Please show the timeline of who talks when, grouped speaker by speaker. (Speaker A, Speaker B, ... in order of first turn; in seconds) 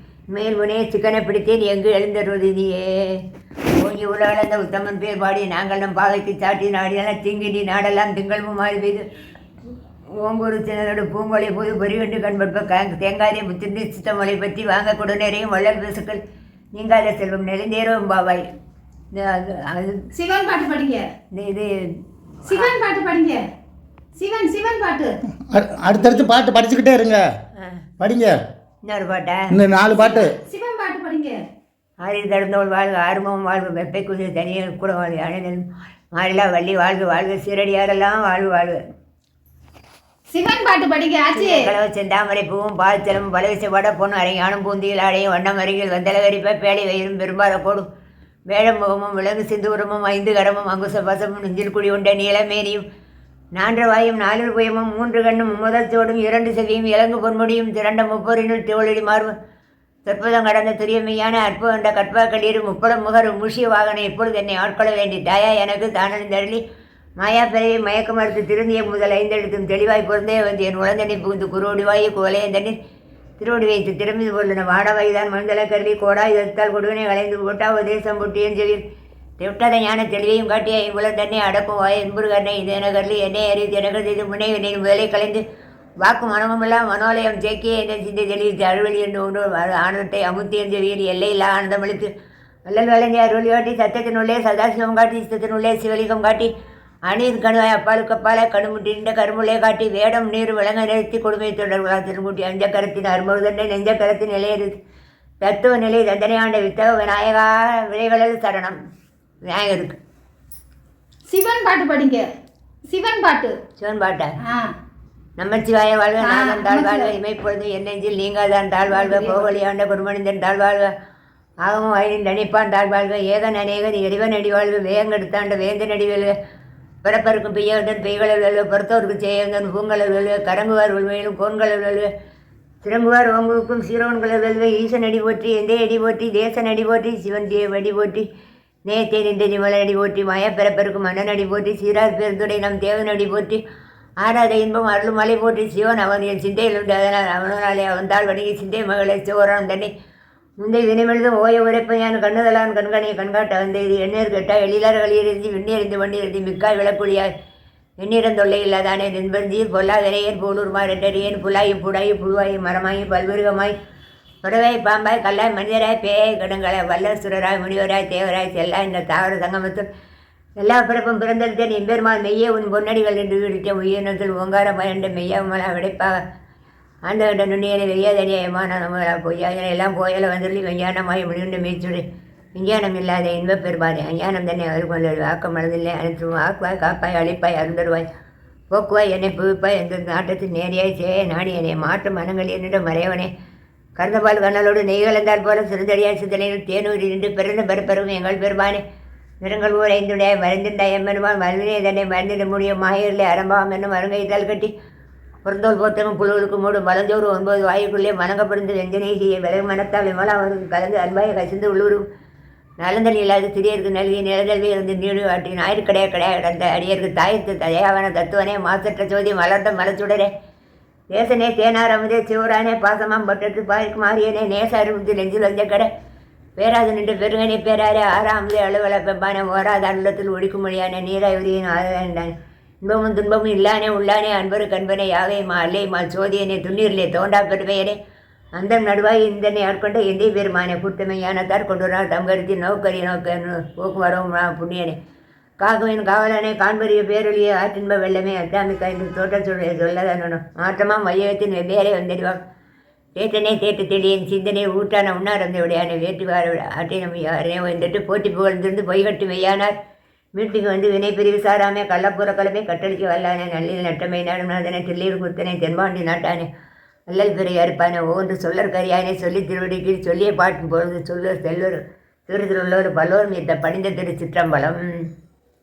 Speaker A: 0.3-3.2, 3.8-9.1, 10.1-16.2, 16.8-18.5, 19.1-20.1, 21.3-21.9, 27.6-27.9, 28.9-29.6, 32.0-38.8, 41.4-47.9, 48.5-52.8, 53.6-59.3, 60.1-66.6, 67.2-72.8, 73.4-78.8, 79.4-85.4, 86.0-92.1, 92.7-96.5, 97.1-104.8, 105.4-108.8, 109.5-110.0, 113.8-114.3, 115.4-120.9, 121.6-126.3, 127.0-132.1, 132.8-138.3, 138.9-143.6, 144.2-149.9, 150.6-157.3, 158.0-163.7, 164.4-169.9, 170.6-176.2, 177.1-182.0, 182.6-188.1, 188.7-193.3, 194.0-198.8, 199.4-204.7, 205.4-212.0, 212.8-220.3, 221.1-225.9, 226.6-238.0, 238.6-245.0, 245.6-252.4, 253.2-259.8, 260.4-266.5, 267.1-275.1
Speaker B: 20.1-21.1, 22.4-23.4, 24.2-25.2, 29.9-31.4, 40.3-41.7, 111.3-112.3, 112.9-113.6, 114.4-114.7, 116.2-117.1, 118.9-119.5
Speaker C: 25.5-27.3, 28.0-28.4, 29.5-30.3